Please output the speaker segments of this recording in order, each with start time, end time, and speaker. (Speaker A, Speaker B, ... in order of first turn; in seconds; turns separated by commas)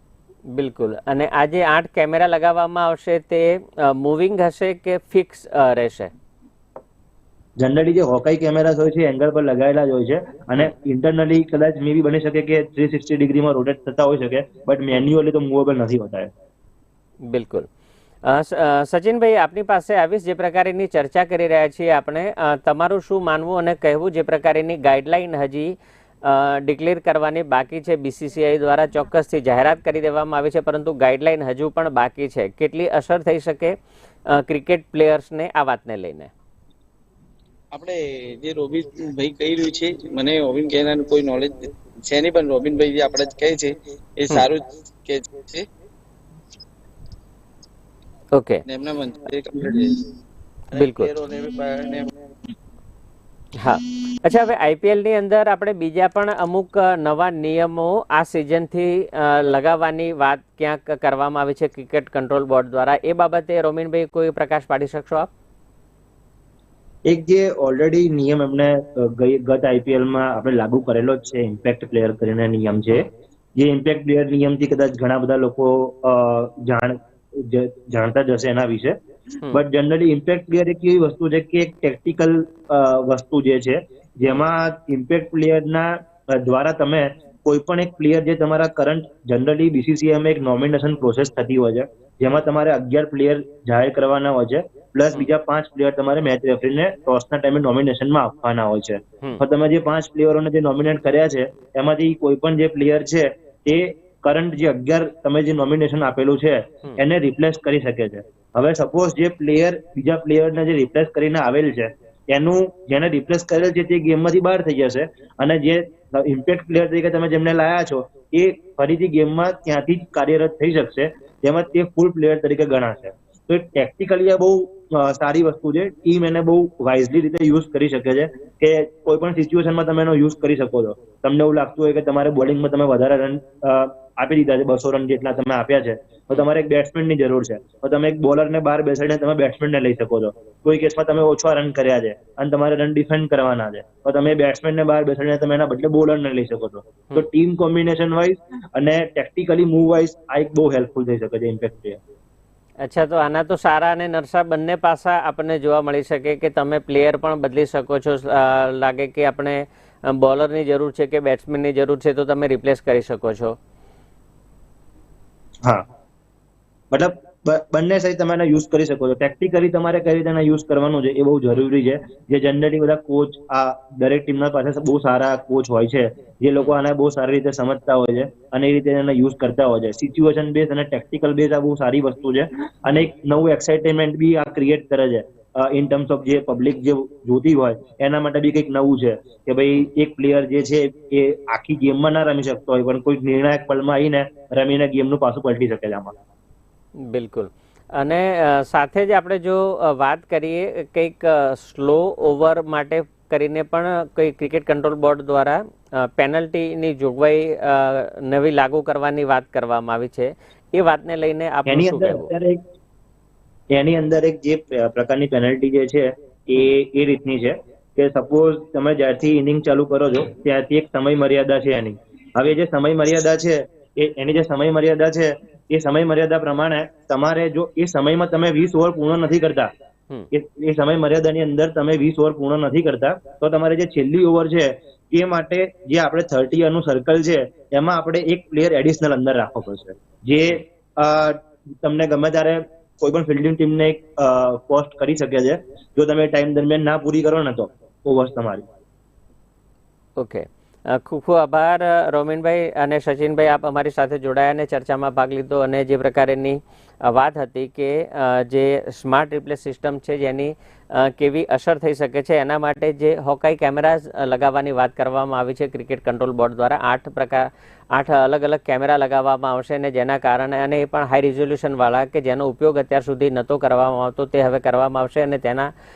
Speaker A: 0.5-6.1, Speaker B: 7.6-16.3, Speaker A: 17.3-17.7, Speaker A: 18.2-33.7, Speaker A: 34.3-36.3, Speaker C: 37.7-45.6, Speaker A: 48.3-48.6, Speaker C: 48.6-50.0, Speaker C: 50.7-52.1, Speaker A: 50.7-51.1, Speaker A: 53.6-65.3, Speaker B: 67.1-79.0, Speaker B: 79.5-152.0, Speaker A: 152.8-163.6, Speaker B: 166.9-196.1, Speaker A: 197.1-212.3, Speaker B: 211.7-212.6, Speaker B: 213.7-229.7, Speaker B: 230.3-248.7, Speaker A: 250.2-275.7